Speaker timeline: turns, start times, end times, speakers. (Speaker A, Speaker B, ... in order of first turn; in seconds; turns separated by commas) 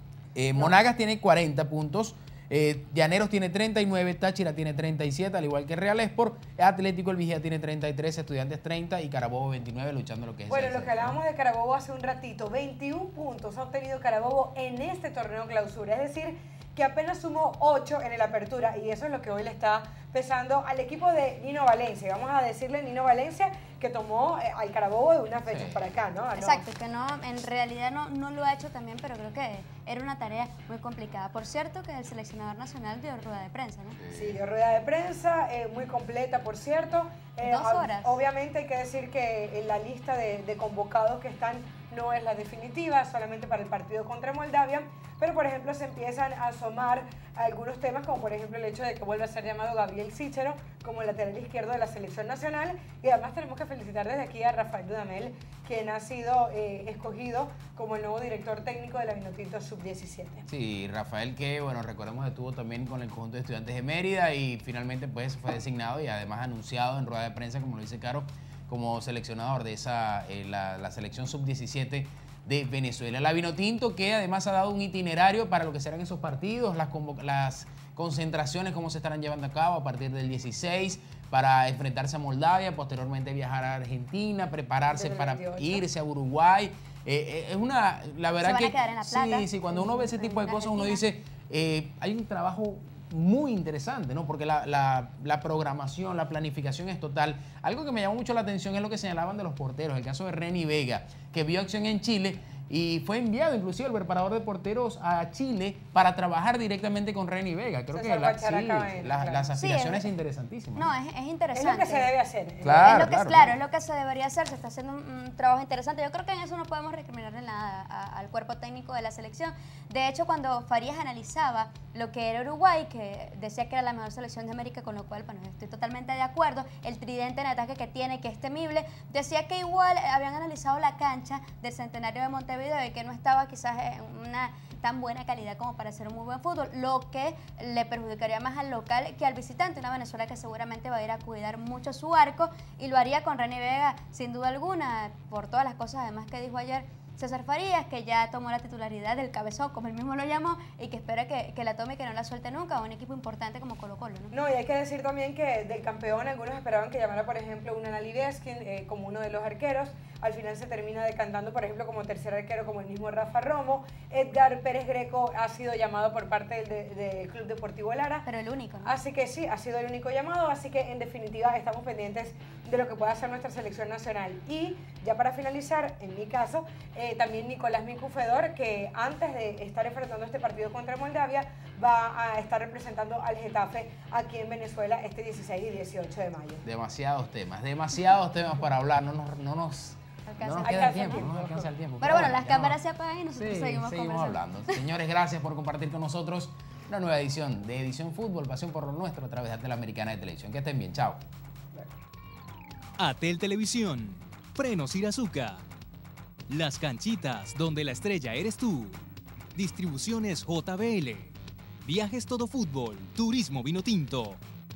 Speaker A: 0.3-11.2, Speaker B: 10.5-26.6, Speaker A: 25.5-25.8, Speaker C: 26.4-34.0, Speaker A: 34.0-34.4, Speaker B: 34.1-60.5, Speaker C: 37.4-38.2, Speaker A: 60.5-110.9, Speaker B: 84.9-85.8, Speaker C: 88.4-91.0, Speaker B: 107.9-109.5, Speaker C: 109.5-110.1, Speaker C: 110.7-112.1, Speaker B: 111.5-113.0, Speaker A: 112.6-113.5, Speaker C: 112.8-154.3, Speaker B: 154.3-168.2, Speaker C: 168.2-169.0, Speaker B: 168.8-186.6, Speaker A: 186.6-192.8, Speaker C: 190.2-191.3, Speaker B: 190.6-191.7, Speaker C: 192.0-194.8, Speaker A: 193.3-201.2, Speaker D: 203.0-205.6, Speaker D: 206.5-209.0, Speaker D: 209.5-214.4